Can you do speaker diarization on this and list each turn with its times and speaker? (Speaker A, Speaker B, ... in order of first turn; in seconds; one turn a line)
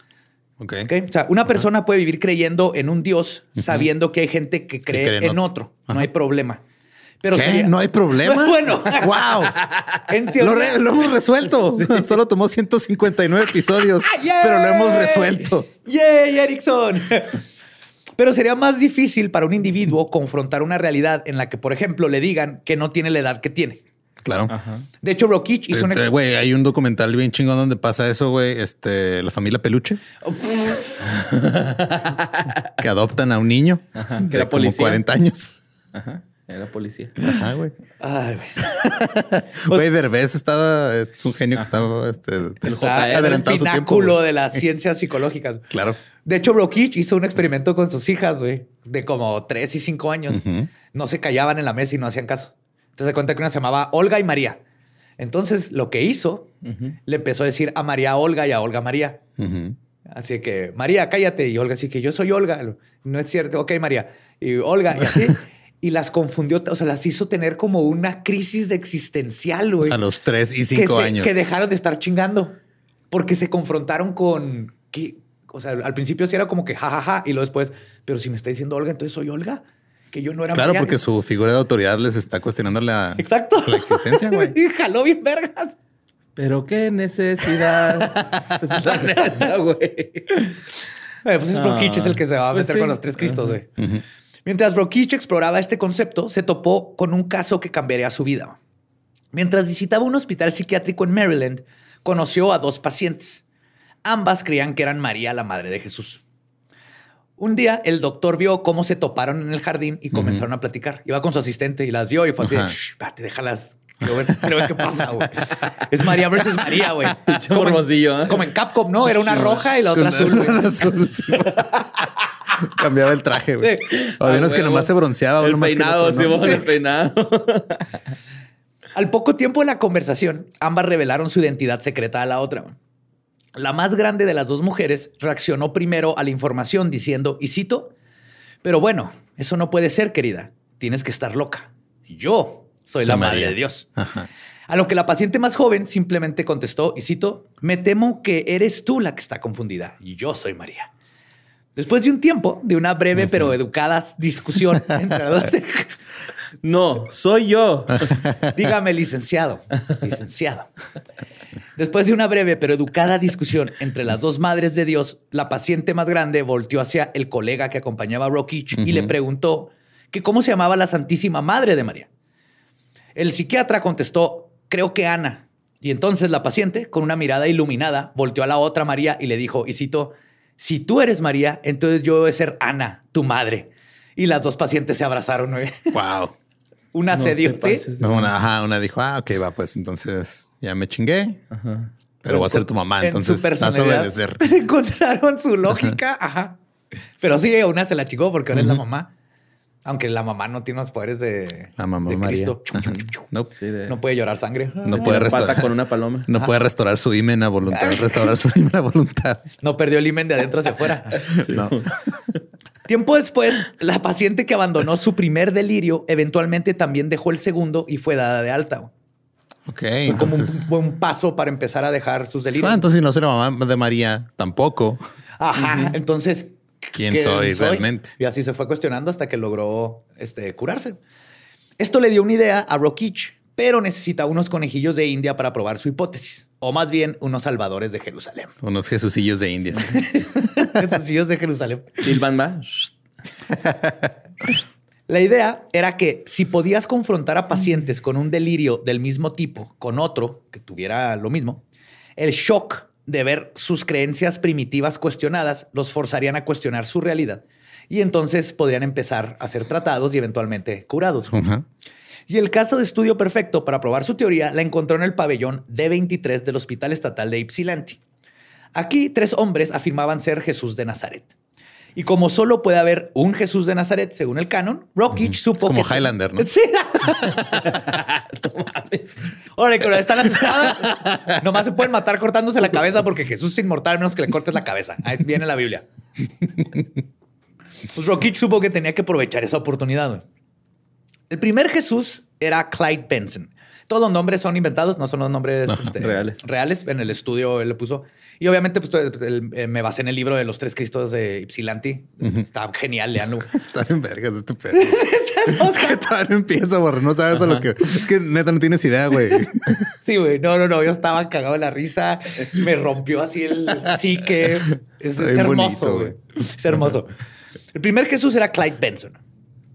Speaker A: 0.6-0.9
Speaker B: 0.8-6.6
Speaker A: 4.9-6.1
Speaker B: 7.2-9.4
Speaker A: 7.3-9.6
Speaker B: 10.1-11.0
Speaker A: 10.3-15.7
Speaker B: 14.0-17.4
Speaker B: 18.2-23.8
Speaker A: 24.2-24.5
Speaker C: 24.5-24.9
Speaker B: 25.0-26.1
Speaker A: 25.7-30.0
Speaker B: 30.2-31.0
Speaker C: 31.0-32.5
Speaker A: 32.8-35.6
Speaker C: 34.0-35.0
Speaker C: 35.9-37.2
Speaker A: 37.2-37.8
Speaker B: 38.0-38.7
Speaker A: 38.6-44.2
Speaker B: 42.6-45.7
Speaker C: 42.6-43.5
Speaker A: 45.7-46.0
Speaker B: 46.2-54.6
Speaker A: 50.3-50.7
Speaker B: 55.2-56.5
Speaker C: 56.6-56.9
Speaker B: 57.1-59.2
Speaker A: 59.4-59.8
Speaker B: 60.1-70.0
Speaker A: 69.8-71.4
Speaker B: 70.7-72.6
Speaker B: 73.1-81.0
Speaker A: 80.5-84.5
Speaker B: 83.2-85.8
Speaker C: 86.4-90.4
Speaker B: 88.0-89.5
Speaker B: 91.2-93.7
Speaker C: 91.5-93.6
Speaker A: 93.8-94.0
Speaker B: 94.5-98.6
Speaker B: 99.3-103.4
Speaker B: 104.0-106.2
Speaker B: 107.4-120.6
Speaker A: 110.1-110.4
Speaker A: 112.4-112.7
Speaker A: 114.4-115.2
Speaker C: 117.2-118.5
Speaker A: 119.9-121.9
Speaker A: 122.6-126.7
Speaker B: 123.6-124.0
Speaker C: 124.0-127.9
Speaker B: 128.9-132.8
Speaker B: 133.6-137.9
Speaker B: 138.6-143.9
Speaker A: 143.0-144.3
Speaker B: 144.7-150.9
Speaker B: 151.8-155.9
Speaker C: 156.6-158.2
Speaker B: 158.5-160.7
Speaker B: 161.8-172.1
Speaker A: 168.8-169.1
Speaker B: 173.2-185.9
Speaker A: 185.9-186.4
Speaker B: 186.9-187.8
Speaker C: 187.1-188.3
Speaker A: 188.0-191.4
Speaker C: 191.5-191.9
Speaker A: 192.2-194.4
Speaker B: 192.3-196.6
Speaker B: 197.2-199.1
Speaker B: 199.8-203.3
Speaker A: 201.8-203.5
Speaker C: 203.6-203.9
Speaker B: 203.9-205.4
Speaker A: 204.8-205.7
Speaker C: 204.9-206.3
Speaker A: 206.3-209.4
Speaker B: 207.7-208.3
Speaker B: 209.6-211.2
Speaker C: 211.4-211.9
Speaker A: 211.4-211.8
Speaker B: 212.9-218.9
Speaker A: 219.7-220.7
Speaker B: 220.1-222.9
Speaker A: 222.6-225.0
Speaker B: 225.4-231.0
Speaker A: 226.9-228.2
Speaker B: 231.8-238.5
Speaker A: 238.6-240.6
Speaker B: 239.9-242.2
Speaker C: 242.0-242.9
Speaker A: 243.6-243.9
Speaker B: 245.1-251.6
Speaker B: 252.2-261.5
Speaker A: 261.3-261.6
Speaker B: 262.3-268.0
Speaker B: 268.7-271.3
Speaker B: 271.9-277.7
Speaker A: 275.2-276.5
Speaker C: 277.6-279.3
Speaker B: 279.6-285.9
Speaker B: 287.9-290.2
Speaker B: 291.3-303.5
Speaker C: 296.0-296.4
Speaker A: 303.5-309.9
Speaker B: 304.7-306.0
Speaker B: 310.0-317.1
Speaker A: 315.1-316.2
Speaker B: 317.7-319.2